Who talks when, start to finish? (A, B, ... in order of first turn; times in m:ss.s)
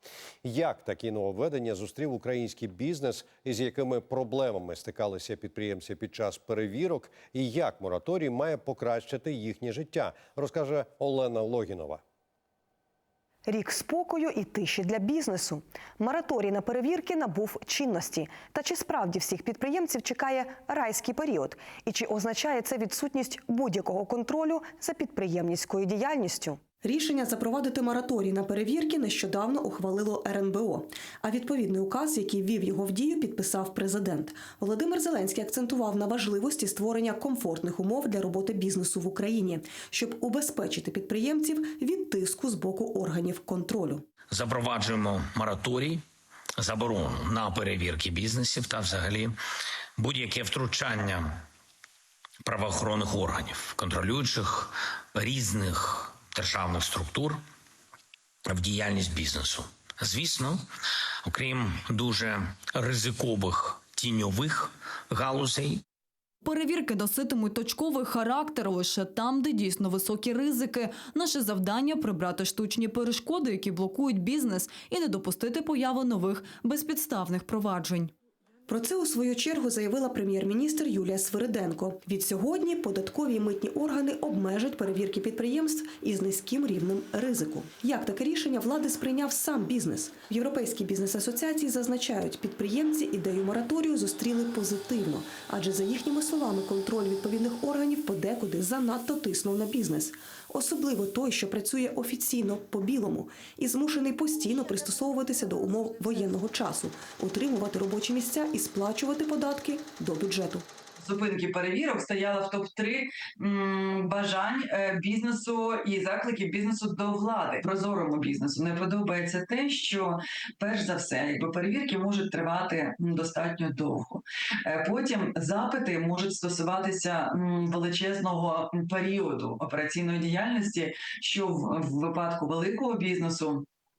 0:00.4-0:12.0 A
0:13.4-0:44.0 B
0:44.3-0:46.0 C
0:46.6-0:49.4 C
0:50.0-0:51.4 C
0:52.4-0:57.4 C
0:58.4-1:00.6 C
1:01.2-1:05.8 C
1:06.4-1:18.1 D
1:18.7-1:50.6 B
1:51.0-2:13.6 E